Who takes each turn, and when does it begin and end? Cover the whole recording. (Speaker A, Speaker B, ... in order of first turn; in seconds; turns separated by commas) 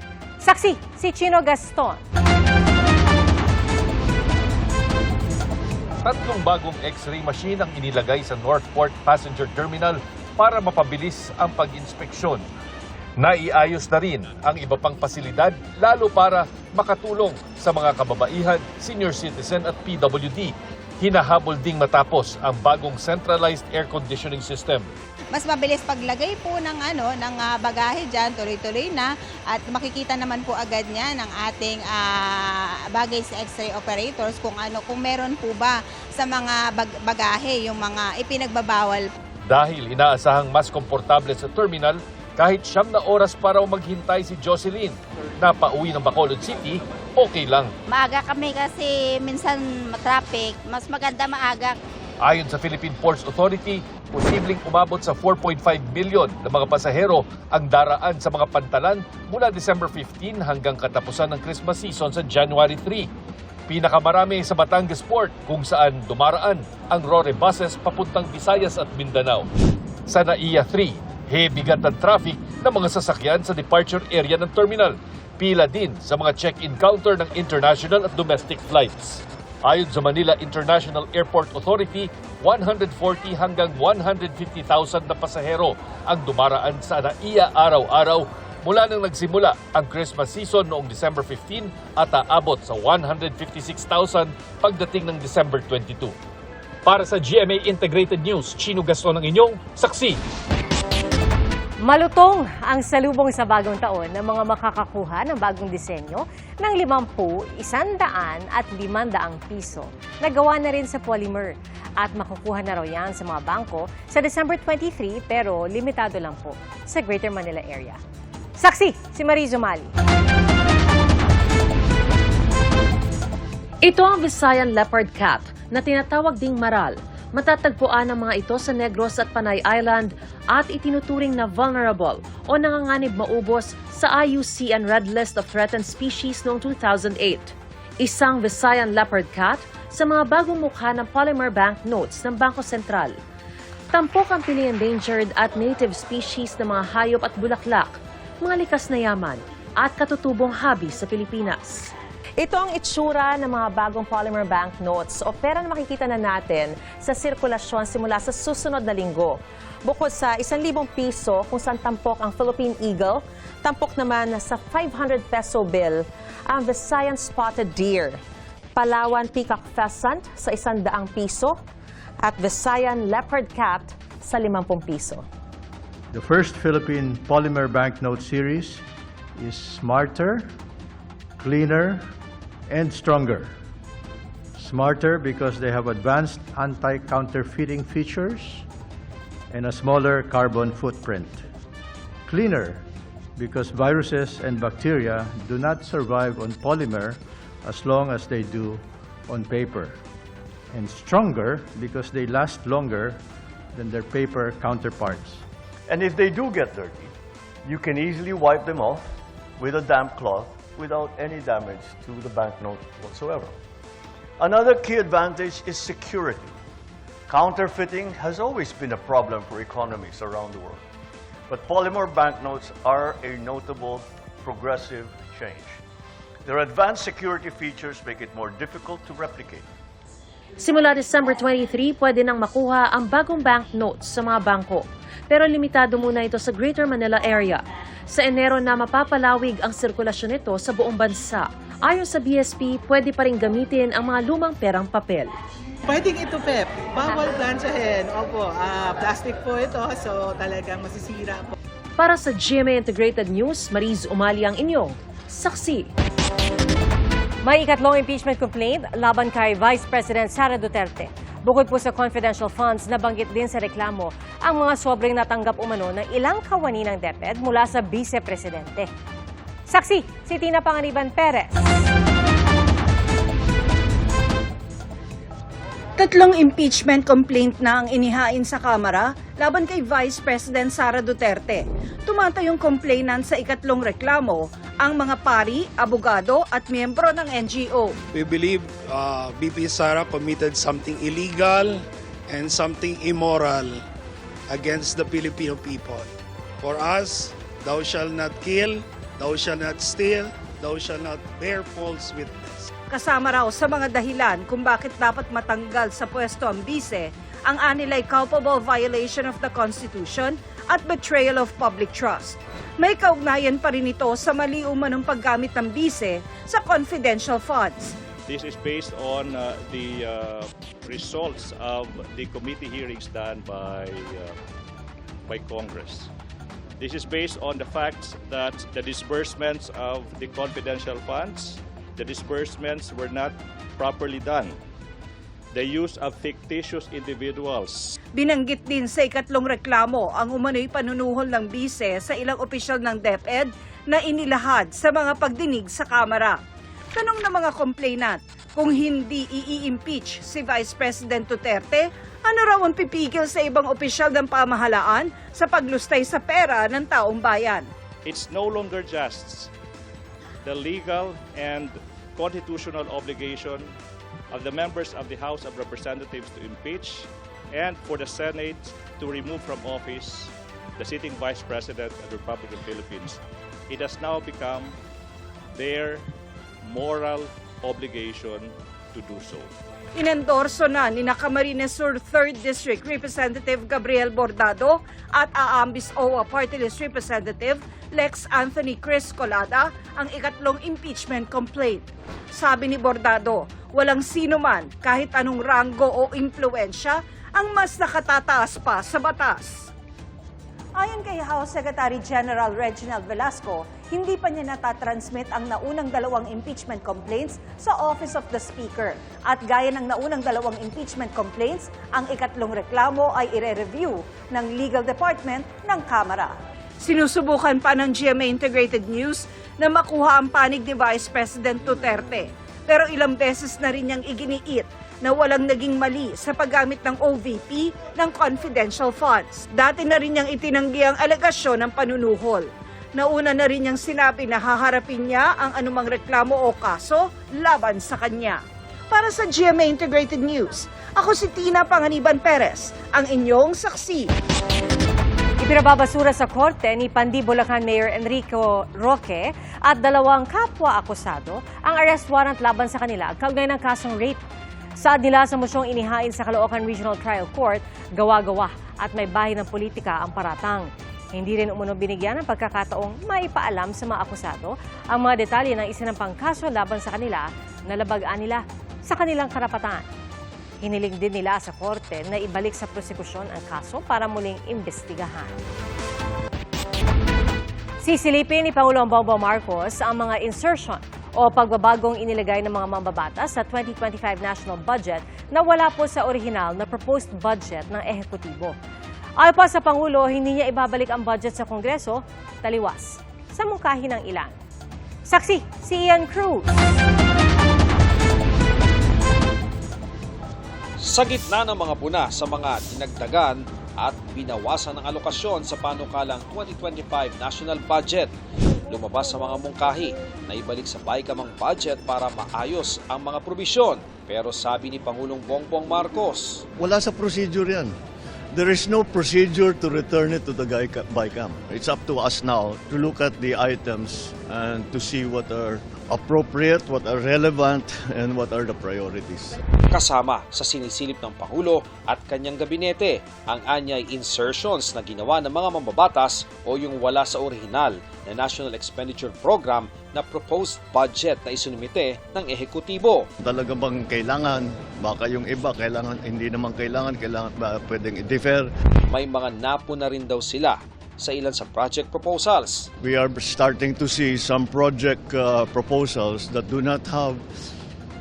Speaker A: 0.4-2.0, Speaker B: 6.0-12.4, Speaker B: 13.2-24.9, Speaker C: 25.3-39.1, Speaker B: 39.5-47.7, Speaker C: 47.9-51.8, Speaker B: 52.2-63.1, Speaker B: 63.7-69.5, Speaker B: 70.1-96.1, Speaker B: 96.8-100.2, Speaker A: 101.8-118.0, Speaker A: 118.6-119.9, Speaker D: 123.8-143.2, Speaker D: 143.9-168.2, Speaker D: 168.8-171.6, Speaker D: 172.2-175.2, Speaker E: 176.1-178.8, Speaker E: 179.3-180.6, Speaker E: 181.4-182.1, Speaker E: 182.7-183.6, Speaker E: 184.5-188.7, Speaker E: 189.5-191.4, Speaker E: 192.2-200.0, Speaker E: 200.7-203.2, Speaker E: 203.7-205.4, Speaker F: 205.9-207.1, Speaker F: 207.6-209.0, Speaker F: 209.6-213.5, Speaker F: 214.4-216.5, Speaker F: 217.3-220.8, Speaker F: 221.5-225.8, Speaker F: 226.4-229.7, Speaker D: 230.6-245.3, Speaker G: 245.9-251.6, Speaker D: 252.0-255.9, Speaker A: 257.4-268.9, Speaker A: 269.7-271.8, Speaker H: 276.0-287.9, Speaker I: 288.1-293.8, Speaker I: 294.5-302.7, Speaker H: 302.9-317.9, Speaker J: 318.2-324.4, Speaker J: 325.3-326.1, Speaker J: 326.8-334.6, Speaker J: 335.5-337.9, Speaker H: 338.1-346.4, Speaker H: 346.9-357.7, Speaker J: 358.0-359.5, Speaker J: 360.4-363.7, Speaker J: 364.3-374.7, Speaker J: 375.5-376.0, Speaker J: 376.6-379.5, Speaker H: 379.9-399.7, Speaker H: 400.7-444.1, Speaker A: 445.4-454.2, Speaker A: 454.8-469.9, Speaker A: 470.6-475.4, Speaker A: 477.8-488.6, Speaker A: 489.2-494.4, Speaker A: 495.1-496.8, Speaker K: 500.9-508.1, Speaker K: 508.7-516.4, Speaker F: 516.6-517.7, Speaker F: 518.3-529.4, Speaker K: 529.7-543.0, Speaker F: 543.2-548.5, Speaker K: 548.9-552.6, Speaker F: 552.8-557.2